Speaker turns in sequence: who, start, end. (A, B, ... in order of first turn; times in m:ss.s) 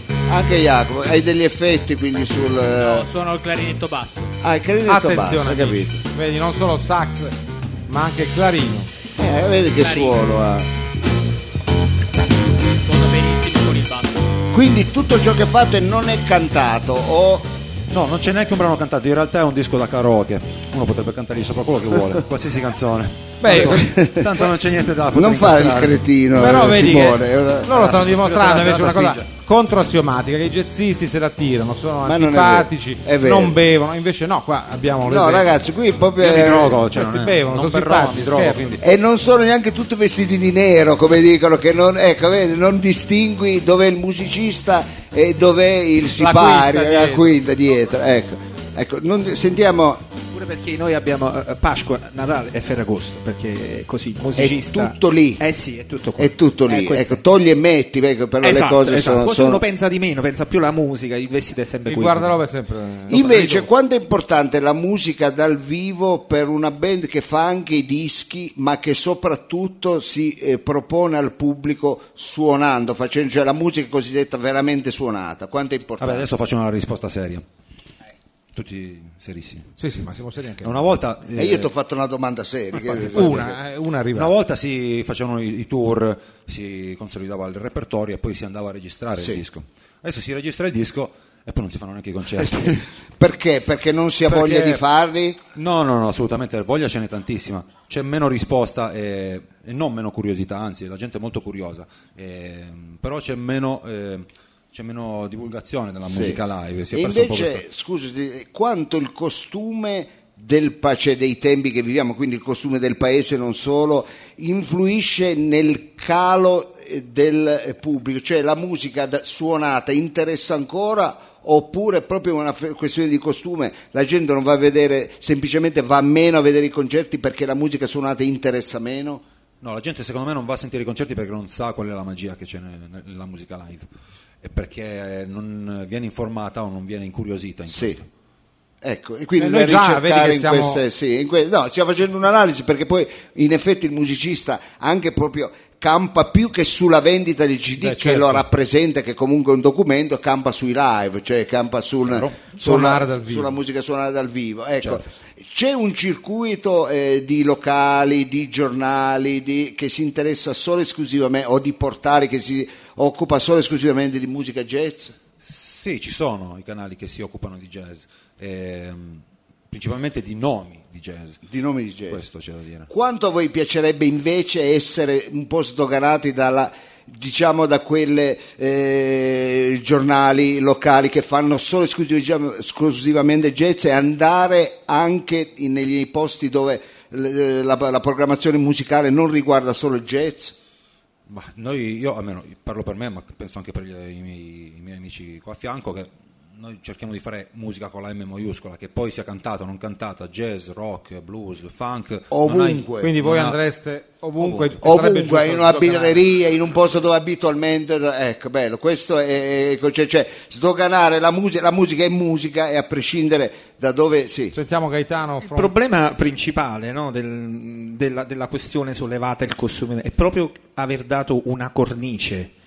0:00.3-0:03.0 A
0:02.7-0:04.3 B
0:04.4-0:06.0 A
0:04.9-0:07.3 C
0:07.9-0:08.9 C
0:09.2-0:10.7 A
0:09.8-0:10.2 B
0:12.6-0:14.3 B
0:14.5-0:17.5 A
0:17.9-0:26.0 D
0:23.4-0:23.9 C
0:23.4-0:24.5 A
0:25.1-0:28.7 A
0:26.4-0:35.5 C
0:27.7-0:29.2 D
0:32.0-0:33.6 A
0:35.0-0:36.8 A
0:36.2-0:38.8 D
0:36.8-0:38.8 C
0:38.8-0:50.0 A
0:46.2-0:47.3 C
0:50.3-0:57.2 E
0:54.4-0:55.4 A
0:56.2-0:59.6 A
0:58.4-1:02.4 E
1:01.8-1:03.7 C
1:03.1-1:16.3 A
1:16.0-1:17.4 D
1:18.5-1:19.7 D
1:19.8-1:20.9 C
1:20.6-1:21.7 D
1:21.3-1:23.6 A
1:22.9-1:24.3 C
1:23.0-1:23.4 D
1:24.1-1:32.8 D
1:32.4-1:35.4 A
1:34.3-1:34.8 D
1:35.5-1:47.6 D
1:46.1-2:09.2 A
2:09.6-2:13.8 D
2:14.4-2:18.1 D
2:17.7-2:18.0 A
2:18.8-2:45.2 A
2:19.4-2:20.8 C
2:27.8-2:28.4 C
2:32.0-2:32.4 D
2:32.6-2:33.5 C
2:45.4-2:51.4 D
2:51.4-2:52.2 A
2:52.1-2:52.9 D
2:52.9-3:10.5 A
3:11.3-3:23.6 D
3:22.3-3:23.1 A
3:23.0-3:26.2 C
3:24.4-3:24.7 D
3:24.7-3:34.6 A
3:34.5-3:35.7 C
3:35.4-3:42.5 E